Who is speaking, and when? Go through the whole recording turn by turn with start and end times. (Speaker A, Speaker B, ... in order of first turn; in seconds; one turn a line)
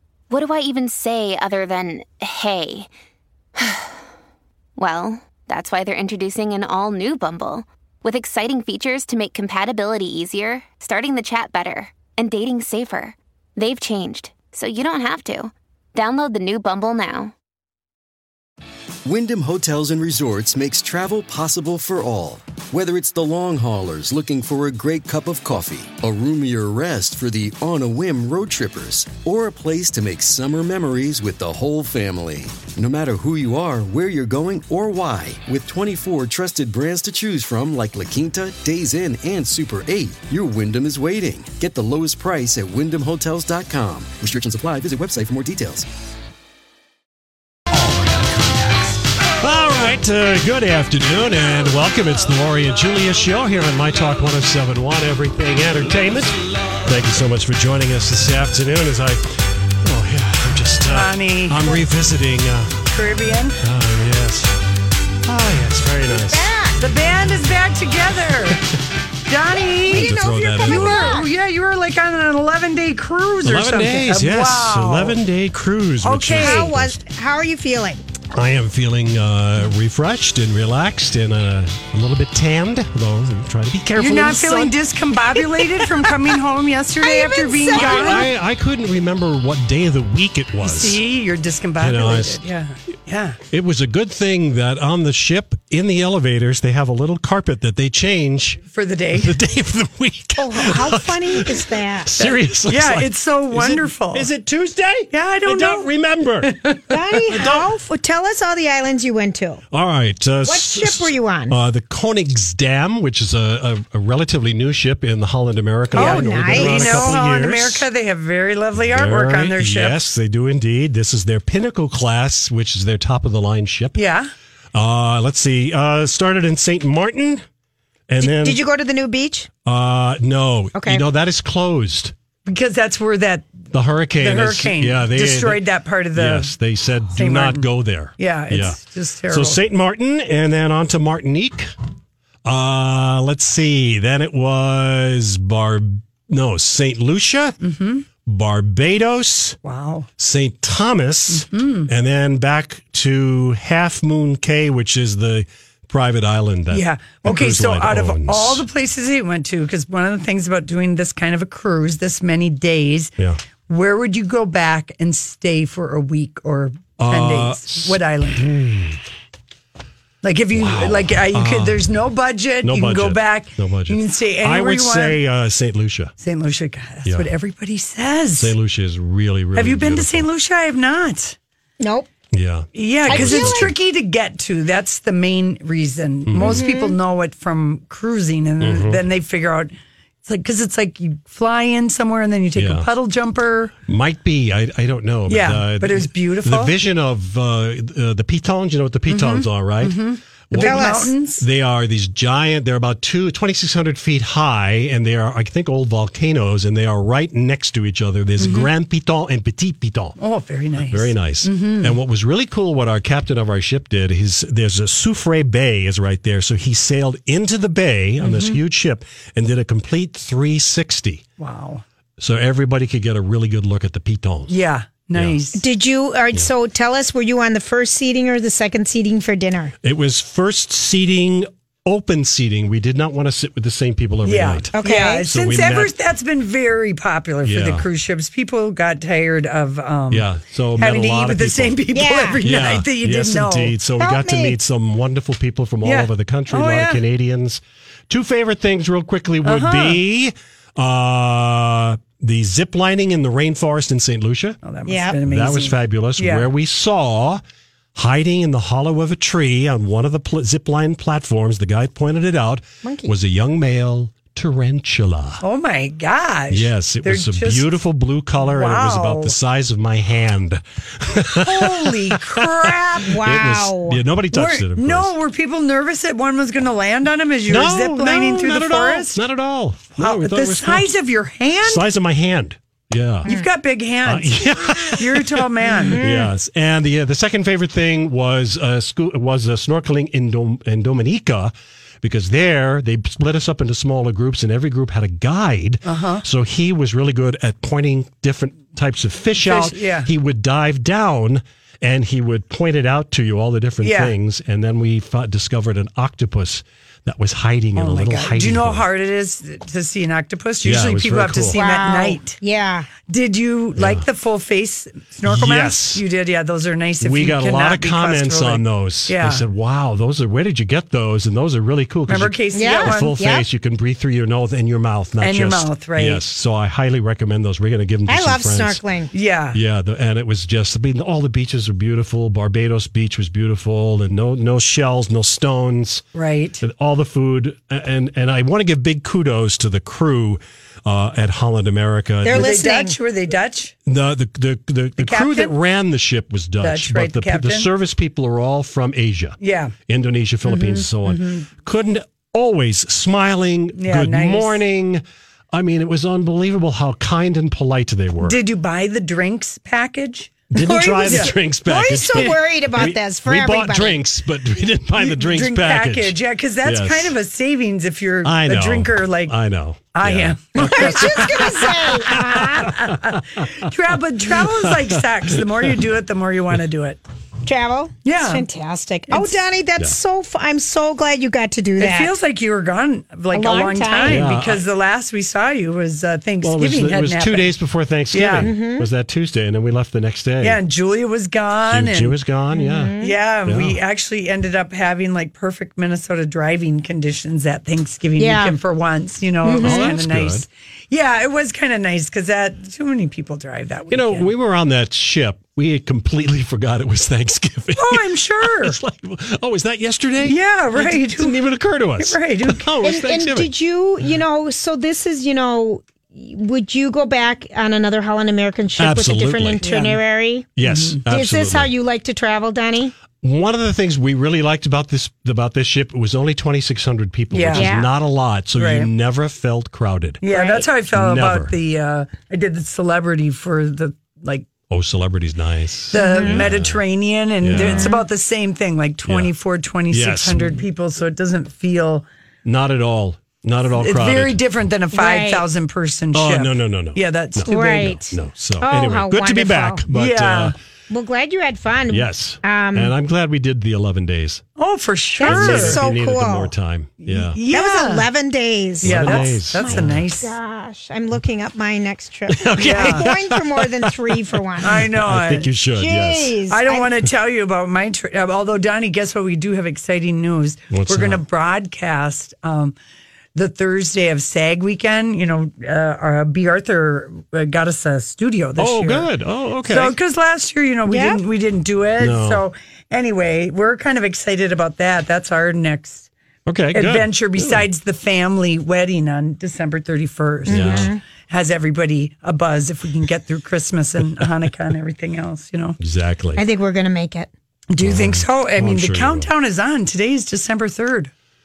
Speaker A: 0.3-2.9
Speaker A: 3.6-3.9
Speaker A: 4.8-17.3
Speaker B: 19.0-45.9
Speaker C: 47.7-48.5
Speaker C: 49.3-62.7
Speaker D: 60.9-61.7
Speaker D: 62.9-63.6
Speaker C: 63.6-64.5
Speaker C: 65.2-66.5
Speaker E: 66.2-66.8
Speaker D: 66.8-68.6
Speaker D: 69.3-75.2
Speaker E: 69.6-71.3
Speaker C: 69.9-71.2
Speaker C: 73.4-77.0
Speaker D: 76.0-76.7
Speaker E: 76.4-78.0
Speaker C: 78.3-84.7
Speaker D: 84.0-88.3
Speaker E: 87.0-88.2
Speaker C: 87.7-91.0
Speaker D: 90.6-93.4
Speaker C: 91.8-92.4
Speaker C: 93.5-98.6
Speaker D: 98.7-99.3
Speaker C: 99.1-106.5
Speaker E: 100.4-102.1
Speaker D: 102.2-104.3
Speaker D: 105.1-105.9
Speaker D: 106.4-107.0
Speaker E: 106.9-109.6
Speaker C: 107.3-107.7
Speaker C: 109.7-117.9
Speaker E: 110.4-111.6
Speaker E: 115.9-117.2
Speaker D: 115.9-120.0
Speaker C: 118.8-124.0
Speaker D: 123.9-124.3
Speaker C: 124.7-127.4
Speaker C: 128.1-128.6
Speaker E: 128.2-129.5
Speaker C: 129.6-132.1
Speaker E: 130.7-131.0
Speaker D: 132.4-133.5
Speaker C: 133.7-135.6
Speaker D: 134.2-136.5
Speaker C: 136.1-141.7
Speaker D: 137.1-139.6
Speaker C: 142.4-147.6
Speaker D: 147.6-148.1
Speaker C: 148.2-149.6
Speaker D: 149.6-150.1
Speaker C: 150.2-158.6
Speaker D: 151.3-151.9
Speaker D: 156.7-163.1
Speaker D: 163.7-168.5
Speaker C: 167.0-169.0
Speaker D: 170.2-175.2
Speaker C: 170.5-171.9
Speaker C: 172.6-176.1
Speaker D: 176.2-178.5
Speaker C: 178.4-180.3
Speaker D: 179.5-181.4
Speaker E: 181.8-182.1
Speaker C: 182.3-183.7
Speaker D: 182.7-193.7
Speaker E: 183.1-183.7
Speaker C: 186.2-186.6
Speaker E: 186.4-186.9
Speaker C: 188.6-189.0
Speaker C: 192.6-192.9
Speaker C: 193.8-200.0
Speaker D: 195.3-196.7
Speaker D: 199.1-201.4
Speaker C: 200.5-210.2
Speaker E: 200.6-201.1
Speaker D: 208.4-208.7
Speaker D: 210.2-211.9
Speaker C: 210.9-221.2
Speaker D: 218.2-218.6
Speaker D: 221.4-221.8
Speaker C: 222.2-224.5
Speaker D: 224.5-225.6
Speaker E: 225.5-229.7
Speaker C: 229.8-235.9
Speaker D: 234.2-243.7
Speaker E: 234.8-235.3
Speaker C: 237.4-237.9
Speaker C: 240.1-241.8
Speaker E: 241.9-242.4
Speaker C: 242.4-254.6
Speaker E: 244.0-244.6
Speaker D: 245.8-247.0
Speaker D: 249.4-250.0
Speaker D: 254.6-256.5
Speaker E: 254.9-255.2
Speaker C: 255.2-257.4
Speaker C: 257.9-265.4
Speaker E: 262.8-263.1
Speaker D: 265.4-267.6
Speaker C: 266.5-275.1
Speaker D: 268.4-269.3
Speaker D: 271.4-273.2
Speaker E: 273.0-274.0
Speaker D: 274.3-279.2
Speaker C: 277.5-280.9
Speaker D: 279.9-281.8
Speaker C: 281.6-283.3
Speaker D: 283.2-286.0
Speaker C: 284.1-308.9
Speaker E: 285.8-286.3
Speaker D: 295.8-296.2
Speaker D: 299.4-300.1
Speaker D: 303.8-304.1
Speaker D: 307.8-312.4
Speaker C: 310.6-311.6
Speaker E: 311.5-312.9
Speaker D: 313.1-319.4
Speaker C: 313.8-314.0
Speaker C: 315.2-316.0
Speaker C: 317.0-328.8
Speaker D: 322.1-323.1
Speaker E: 322.5-323.4
Speaker D: 325.2-326.2
Speaker E: 328.1-329.1
Speaker D: 329.1-329.6
Speaker C: 329.5-336.0
Speaker D: 336.1-336.6
Speaker C: 336.6-342.6
Speaker E: 342.2-342.9
Speaker D: 342.3-343.7
Speaker C: 343.9-349.4
Speaker D: 345.0-345.5
Speaker D: 346.6-347.7
Speaker D: 349.4-349.7
Speaker C: 349.9-358.4
Speaker D: 350.4-351.5
Speaker D: 353.8-354.6
Speaker D: 358.2-361.3
Speaker C: 360.5-367.1
Speaker E: 360.6-364.0
Speaker D: 365.0-369.4
Speaker C: 368.2-373.5
Speaker D: 369.9-377.0
Speaker E: 370.6-372.8
Speaker C: 374.3-375.8
Speaker E: 377.4-382.1
Speaker D: 378.0-378.4
Speaker D: 379.1-379.4
Speaker D: 381.8-387.5
Speaker E: 383.3-384.3
Speaker C: 384.0-384.6
Speaker C: 386.4-390.6
Speaker D: 388.1-388.5
Speaker E: 388.4-388.9
Speaker D: 390.4-392.1
Speaker C: 391.7-393.8
Speaker E: 392.5-393.1
Speaker D: 393.0-404.3
Speaker E: 398.2-398.6
Speaker E: 399.4-399.9
Speaker C: 399.5-400.4
Speaker C: 403.9-413.5
Speaker D: 407.8-408.8
Speaker D: 410.2-411.4
Speaker D: 412.0-412.6
Speaker E: 412.8-420.5
Speaker C: 418.8-419.6
Speaker D: 419.6-420.0
Speaker C: 420.6-421.7
Speaker D: 420.6-421.0
Speaker E: 421.1-422.9
Speaker C: 423.2-430.2
Speaker D: 427.3-427.7
Speaker E: 427.5-427.9
Speaker D: 428.5-428.9
Speaker D: 430.2-434.5
Speaker E: 430.3-430.6
Speaker C: 430.9-431.5
Speaker C: 434.7-436.8
Speaker D: 435.9-442.0
Speaker E: 435.9-436.4
Speaker C: 437.4-437.9
Speaker E: 437.6-438.0
Speaker C: 439.1-439.3
Speaker C: 439.9-440.6
Speaker C: 442.4-444.4
Speaker D: 443.8-448.1
Speaker E: 444.9-445.4
Speaker C: 446.1-450.5
Speaker E: 447.5-449.8
Speaker D: 449.9-450.5
Speaker E: 450.9-452.9
Speaker C: 451.9-454.4
Speaker D: 454.6-455.8
Speaker E: 455.2-456.5
Speaker C: 455.2-457.4
Speaker D: 457.0-458.1
Speaker E: 457.5-464.8
Speaker D: 458.8-460.3
Speaker C: 458.8-460.0
Speaker C: 462.3-466.4
Speaker D: 462.6-463.0
Speaker D: 464.6-465.5
Speaker E: 465.8-466.9
Speaker D: 466.5-472.7
Speaker C: 470.7-471.2
Speaker D: 473.3-479.1
Speaker C: 478.6-480.0
Speaker D: 479.7-486.1
Speaker E: 480.9-481.2
Speaker C: 482.0-482.4
Speaker C: 486.4-487.6
Speaker D: 486.7-495.8
Speaker E: 490.4-491.0
Speaker C: 490.5-490.9
Speaker C: 495.8-496.4
Speaker E: 496.4-497.3
Speaker D: 497.7-501.1
Speaker C: 497.8-499.3